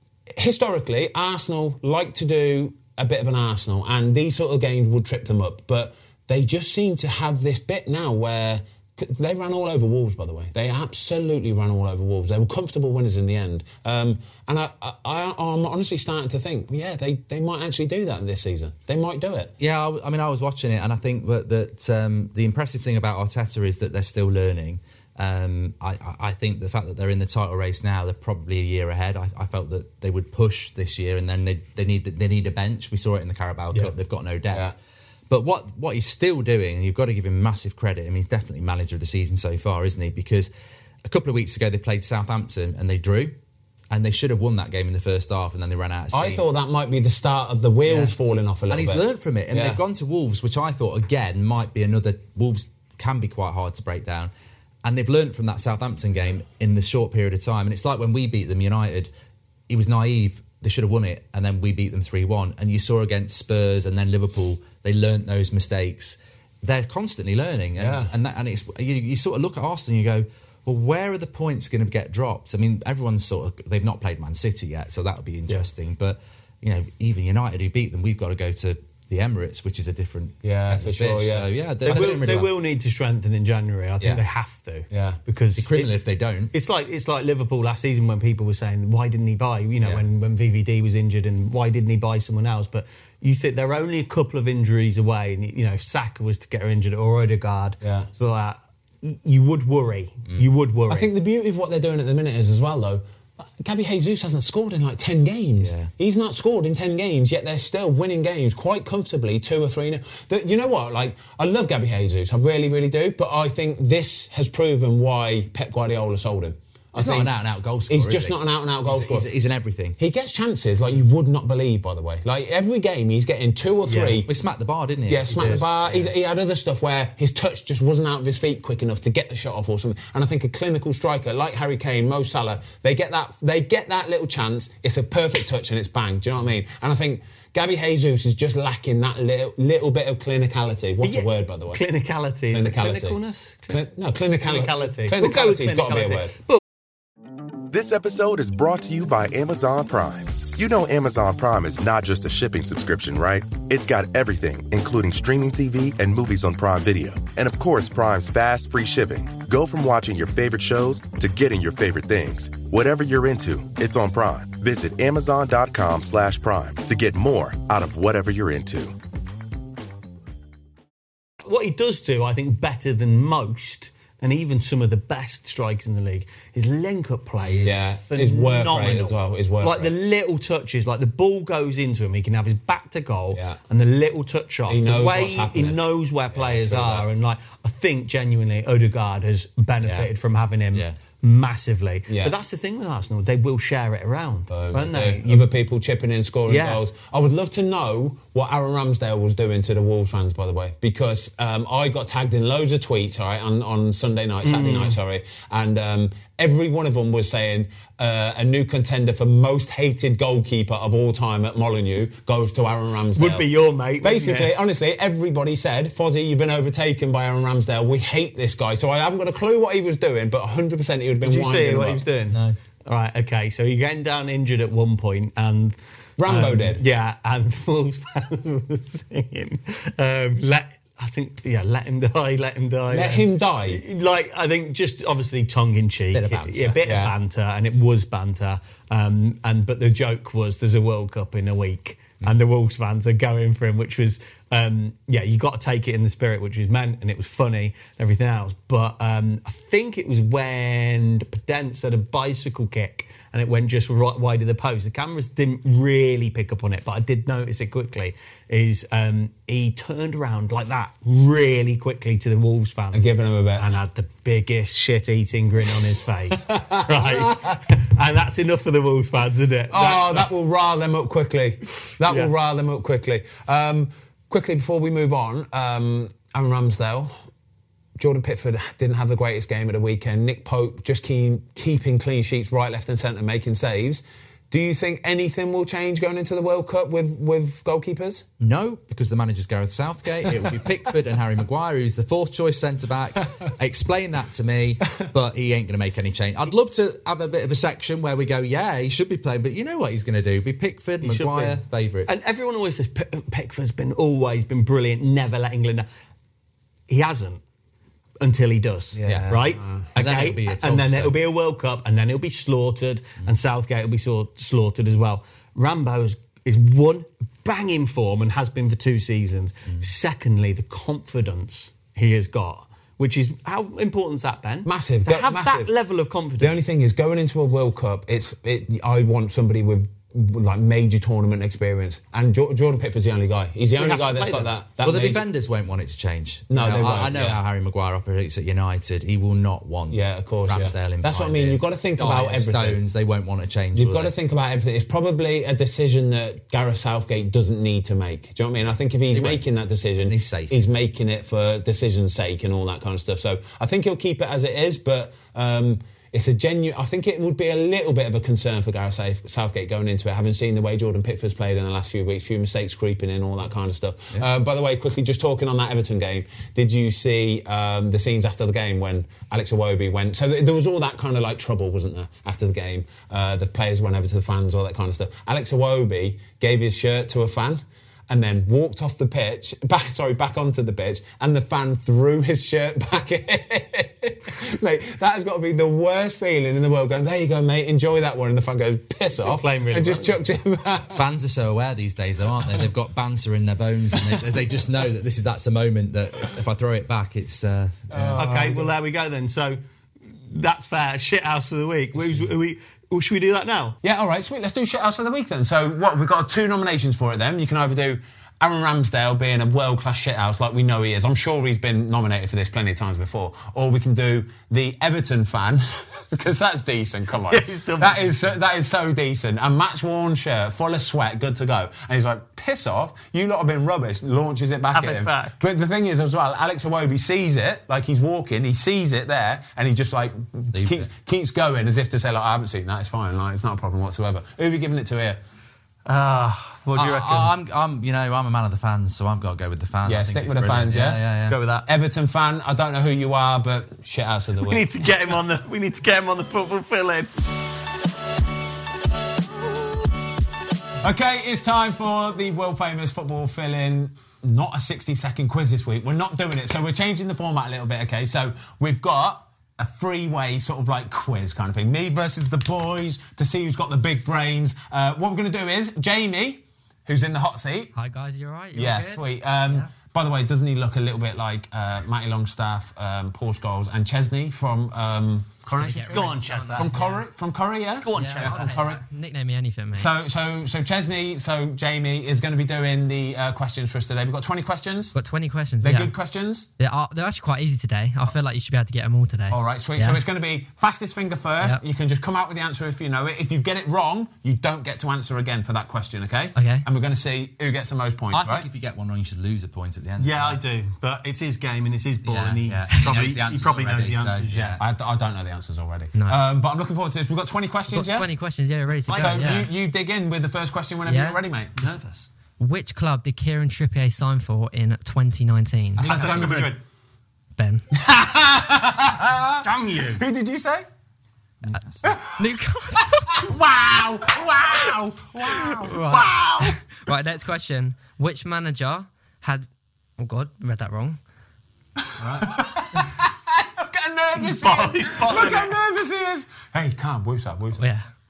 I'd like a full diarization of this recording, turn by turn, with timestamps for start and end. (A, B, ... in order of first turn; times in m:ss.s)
0:00.4-0:19.5 A
0:19.6-0:34.8 B
0:35.3-0:40.5 B
0:41.0-0:43.4 B
0:43.9-0:46.4 B
0:46.1-0:49.8 A
0:47.9-0:48.2 B
0:48.7-0:54.3 B
0:54.8-0:59.1 B
0:59.7-1:22.6 B
1:07.8-1:08.1 A
1:20.4-1:22.1 A
1:21.8-1:26.0 C
1:24.9-1:25.2 A
1:25.6-1:26.5 B
1:26.5-1:41.1 C
1:37.8-1:38.1 A
1:40.9-1:57.3 A
1:45.6-1:45.9 B
1:57.0-2:00.0 B
1:57.9-1:59.3 A
2:00.0-2:04.3 A
2:03.8-2:04.2 C
2:04.3-2:06.1 B
2:05.1-2:21.8 A
2:21.0-2:23.8 C
2:22.5-2:26.4 A
2:24.4-2:26.6 C
2:27.7-2:49.0 D
2:51.4-3:15.5 C
2:57.6-2:59.9 A
3:03.3-3:03.6 A
3:04.7-3:07.1 A
3:09.8-3:10.1 A
3:10.7-3:11.0 B
3:12.1-3:12.4 A
3:14.5-3:33.5 A
3:16.5-3:16.8 C
3:24.4-3:25.0 C
3:33.2-3:34.5 C
3:34.0-3:42.0 A
3:41.2-4:30.3 C
3:42.3-3:42.6 B
3:46.2-3:46.8 A
3:52.9-3:53.8 A
3:56.1-3:56.8 B
3:56.8-3:57.1 A
4:22.9-4:23.7 A
4:26.3-4:27.6 A
4:29.7-4:37.1 A
4:32.0-4:32.3 C
4:38.0-4:48.2 A
4:48.4-5:02.2 B
5:01.0-5:05.9 C
5:06.9-5:07.4 C
5:08.2-5:26.6 C
5:09.0-5:09.9 A
5:09.0-5:11.2 B
5:24.6-5:25.7 A
5:26.4-5:35.2 A
5:33.8-5:34.5 C
5:34.8-5:44.1 B
5:36.5-5:37.4 A
5:39.9-5:42.8 A
5:43.7-6:31.0 A
5:49.1-5:49.4 B
5:50.0-5:50.6 B
6:29.2-6:30.2 C
6:30.9-6:38.3 B
6:37.9-6:38.7 A
6:38.2-6:43.8 C
6:43.8-7:15.2 A
6:57.3-6:58.3 C
7:04.7-7:05.4 C
7:10.5-7:10.9 B
7:15.9-7:17.3 C
7:16.8-7:21.4 B
7:19.8-7:21.0 A
7:21.3-7:21.7 C
7:21.6-7:24.7 A
7:24.4-7:27.1 C
7:30.8-7:47.7 A
7:47.8-7:49.7 E
7:48.5-7:58.8 A
7:55.5-7:56.8 E
7:55.9-7:57.0 C
7:57.8-7:58.6 C
7:57.9-7:59.9 E
7:59.8-8:05.0 A
8:04.9-8:05.9 E
8:05.6-8:06.5 A
8:06.6-8:10.0 E
8:09.3-8:18.5 A
8:16.4-8:16.7 E
8:18.1-8:20.4 B
8:20.0-8:24.6 C
8:22.0-8:24.6 B
8:24.6-8:28.1 A
8:26.0-8:26.2 E
8:27.7-8:29.5 E
8:28.9-8:29.5 C
8:28.9-8:31.8 A
8:30.9-8:31.2 E
8:31.6-8:32.1 C
8:32.4-8:35.9 E
8:35.8-8:36.4 B
8:35.8-8:36.6 A
8:35.8-8:36.6 C
8:37.4-8:37.7 E
8:37.7-8:40.7 A
8:39.4-8:40.0 C
8:41.4-8:41.9 B
8:41.8-8:42.2 A
8:42.2-8:43.3 E
8:42.8-8:46.6 A
8:45.3-8:49.5 E
8:50.0-8:51.0 E
8:52.0-8:52.4 B
8:52.0-8:57.6 A
8:54.2-8:55.5 C
8:57.6-8:57.9 E